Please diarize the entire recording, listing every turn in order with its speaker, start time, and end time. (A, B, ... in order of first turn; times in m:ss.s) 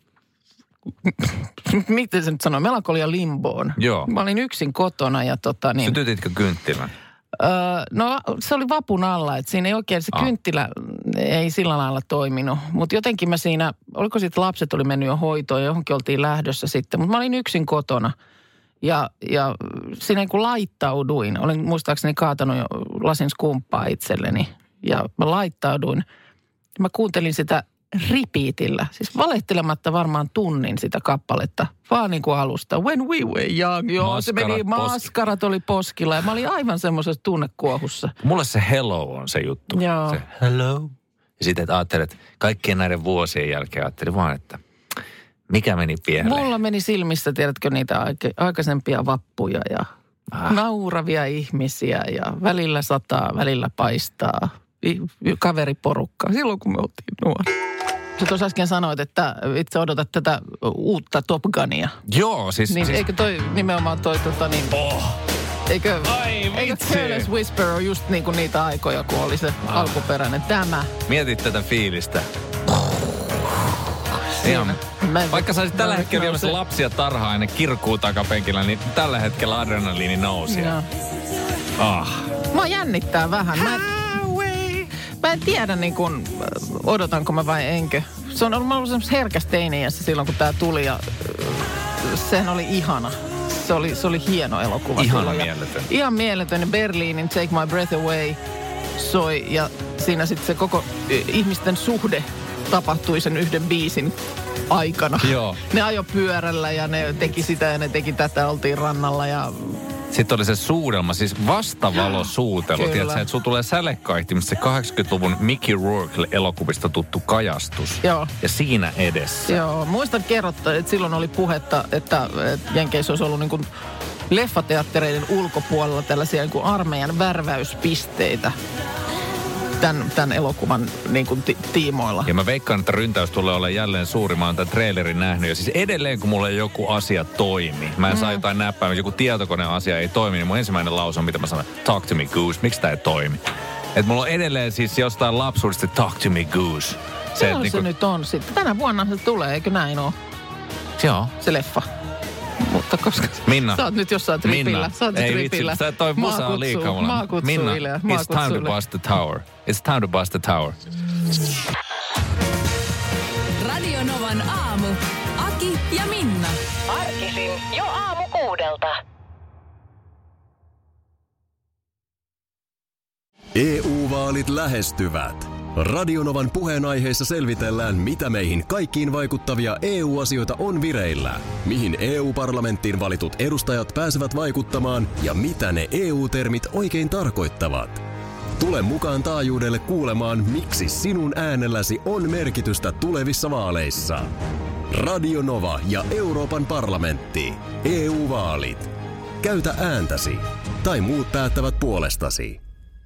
0:01.0-0:06.0 A
0:03.8-0:04.1 B
0:05.8-0:06.9 B
0:07.4-0:18.2 A
0:18.8-0:26.0 A
0:26.8-0:38.2 A
0:34.0-0:35.1 B
0:38.2-0:44.6 B
0:39.7-0:40.2 A
0:45.5-0:46.5 B
0:46.2-0:49.9 A
0:50.4-0:57.5 A
0:58.2-1:02.0 A
1:02.1-1:03.1 B
1:02.7-1:04.8 A
1:04.7-1:05.2 B
1:05.7-1:10.9 A
1:06.0-1:07.3 B
1:09.7-1:10.0 B
1:11.1-1:12.3 B
1:14.4-1:16.6 A
1:14.4-1:20.8 B
1:20.5-1:20.9 A
1:21.8-1:22.4 B
1:22.5-1:38.4 A
1:35.0-1:35.9 B
1:39.0-1:44.2 A
1:44.7-1:49.8 A
1:45.2-1:45.6 B
1:50.1-1:59.6 B
1:52.8-1:53.2 A
1:58.0-1:58.3 A
1:59.5-2:03.7 A
2:04.3-2:08.6 A
2:09.8-2:12.3 A
2:12.2-2:23.4 B
2:18.1-2:18.4 A
2:23.9-2:27.9 B
2:27.4-2:30.2 A
2:31.0-2:31.3 B
2:31.4-2:31.9 A
2:32.6-2:38.8 A
2:33.5-2:33.9 B
2:34.4-2:40.8 B
2:43.6-2:46.6 C
2:46.9-2:49.0 D
2:53.6-3:08.0 E
3:08.6-3:14.3 E
3:14.9-3:18.9 E
3:19.4-3:22.6 E